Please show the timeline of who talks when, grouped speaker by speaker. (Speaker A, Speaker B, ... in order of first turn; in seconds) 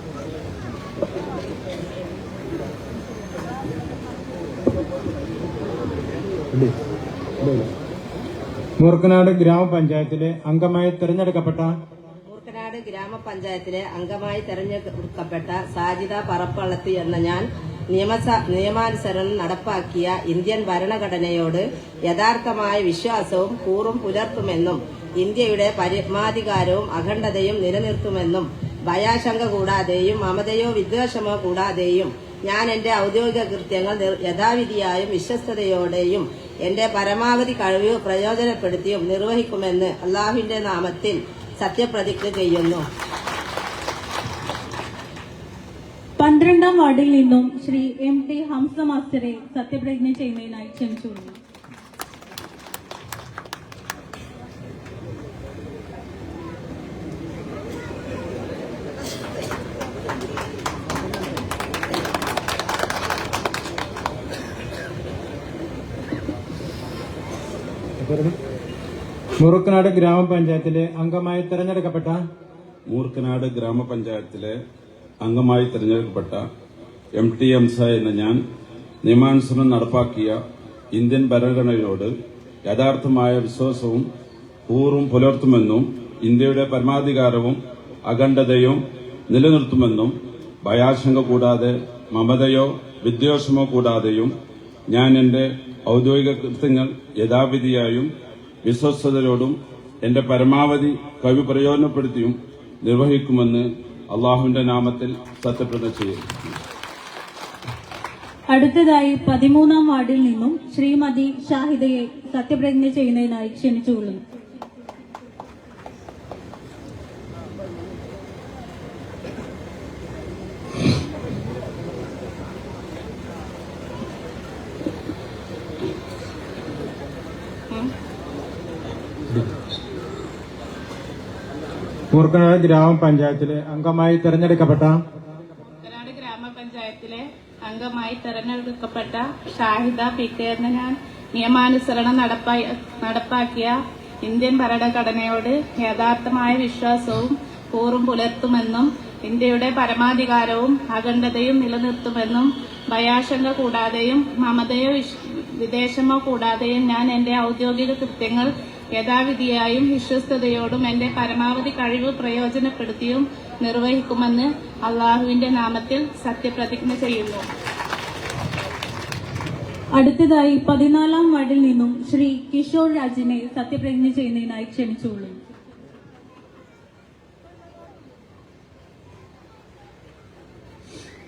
Speaker A: 8.8-11.7, 68.0-68.3, 69.4-72.2, 132.1-135.0
Speaker B: 12.2-42.9
Speaker C: 46.2-51.4, 108.5-114.2, 169.9-175.4
Speaker D: 72.9-74.6, 75.2-76.4, 77.2-78.4, 79.0-80.4, 80.9-82.1, 82.7-84.0, 84.7-94.3, 94.9-98.1, 98.6-106.3
Speaker E: 135.8-167.4